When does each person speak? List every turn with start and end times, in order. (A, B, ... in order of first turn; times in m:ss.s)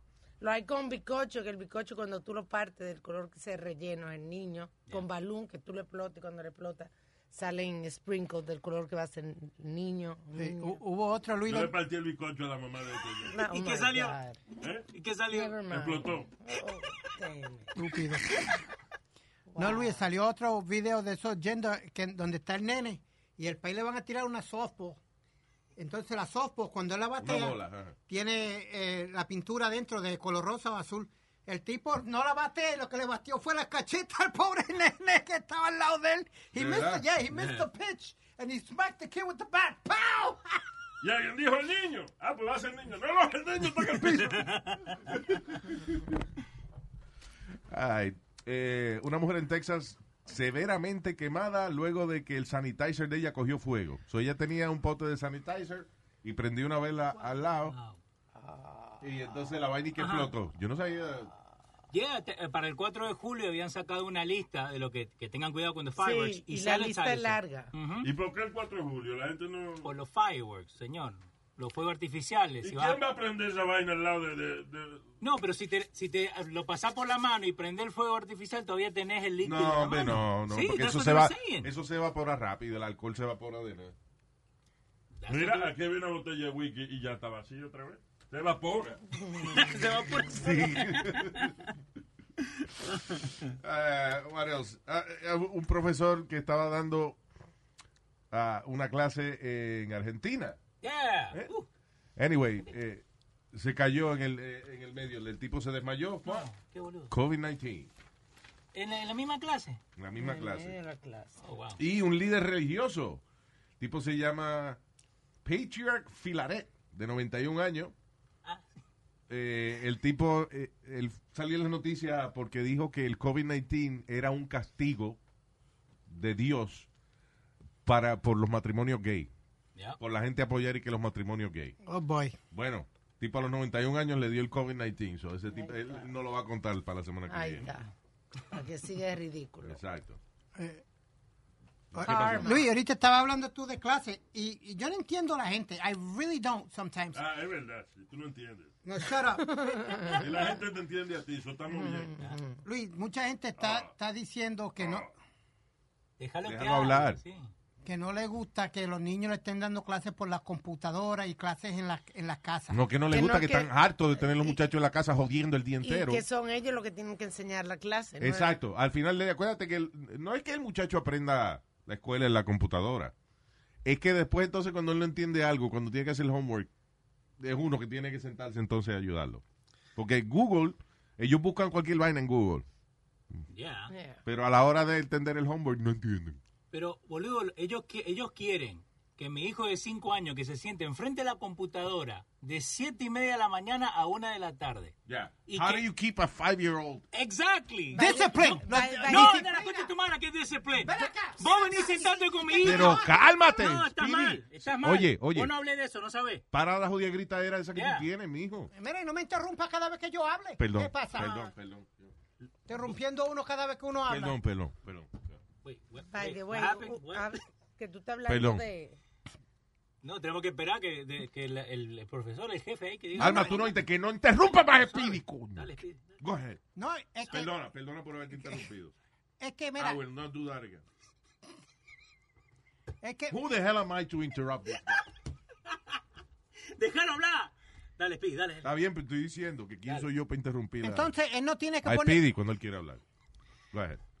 0:00.4-0:10.8 A
0:10.4-0:11.8 B
0:11.4-0:13.4 C
0:13.3-0:14.4 A
0:13.4-0:14.2 D
0:14.6-0:14.9 C
0:14.9-0:15.6 D
0:15.3-0:17.7 A
0:15.7-0:16.3 C
0:17.8-0:18.4 B
0:19.5-0:20.0 A
0:19.6-0:25.0 B
0:25.8-0:40.6 B
0:27.2-0:27.9 E
0:36.5-0:37.1 E
0:41.0-0:45.6 C
0:47.7-0:57.7 E
0:57.6-0:58.0 D
0:58.4-0:59.0 A
0:59.0-1:01.3 E
1:00.0-1:00.3 D
1:01.9-1:08.1 D
1:06.0-1:07.7 A
1:08.0-1:09.9 C
1:09.8-1:13.0 D
1:12.6-1:15.0 C
1:15.2-1:21.7 D
1:19.4-1:23.9 E
1:25.2-1:25.7 D
1:25.3-1:29.7 C
1:29.3-1:31.5 D
1:30.3-1:31.5 E
1:33.5-1:37.2 E
1:38.3-1:40.6 E
1:40.8-1:41.7 D
1:42.2-1:46.5 E
1:46.2-1:47.1 D
1:47.1-1:47.9 E
1:48.7-1:49.8 D
1:50.0-1:50.8 E
1:50.2-1:51.4 A
1:51.4-1:51.8 D
1:51.8-1:53.2 E
1:53.8-1:54.8 E
1:55.4-1:57.9 E
1:59.3-2:05.2 E
2:06.1-2:06.9 E
2:07.8-2:09.3 E
2:10.0-2:11.8 E
2:11.8-2:12.4 B
2:12.5-2:17.7 E
2:15.6-2:16.0 A
2:17.3-2:19.8 A
2:19.6-2:20.2 E
2:20.5-2:20.8 B
2:21.9-2:22.6 E
2:22.0-2:27.2 B
2:22.0-2:22.7 A
2:27.1-2:28.7 C
2:28.8-2:30.2 B
2:29.4-2:30.3 A
2:30.0-2:32.1 C
2:32.0-2:32.6 A
2:32.6-2:35.1 B
2:33.6-2:33.9 C
2:34.8-2:35.1 C
2:36.2-2:37.5 D
2:36.4-2:37.2 E
2:37.8-2:42.8 B
2:42.7-2:46.2 E
2:43.1-2:44.6 A
2:45.8-2:48.6 A
2:48.2-2:53.1 E
2:53.8-2:56.7 E
2:57.4-2:59.4 E
3:00.0-3:02.6 E
3:03.5-3:03.9 D
3:03.9-3:04.2 A
3:04.2-3:06.4 E
3:06.7-3:14.9 D
3:15.1-3:17.0 E
3:15.5-3:15.8 D
3:17.1-3:26.4 D
3:17.9-3:19.5 A
3:17.9-3:19.9 B
3:20.8-3:23.4 B
3:22.6-3:25.5 E
3:26.5-3:28.7 E
3:27.7-3:28.1 D
3:28.7-3:31.3 B
3:30.6-3:32.1 E
3:32.7-3:34.4 B
3:34.1-3:35.4 E
3:35.6-3:37.4 D
3:36.1-3:39.0 A
3:38.3-3:38.6 E
3:40.0-3:43.8 D
3:43.2-3:46.6 E
3:44.9-3:46.2 D
3:46.8-3:47.5 B
3:47.3-3:48.9 E
3:49.4-3:50.0 B
3:49.7-3:50.8 E
3:53.0-3:53.4 B
3:53.3-3:55.0 E
3:56.7-3:58.7 D
3:58.6-4:01.1 E
4:00.8-4:02.2 B
4:01.8-4:03.0 E
4:03.7-4:04.0 E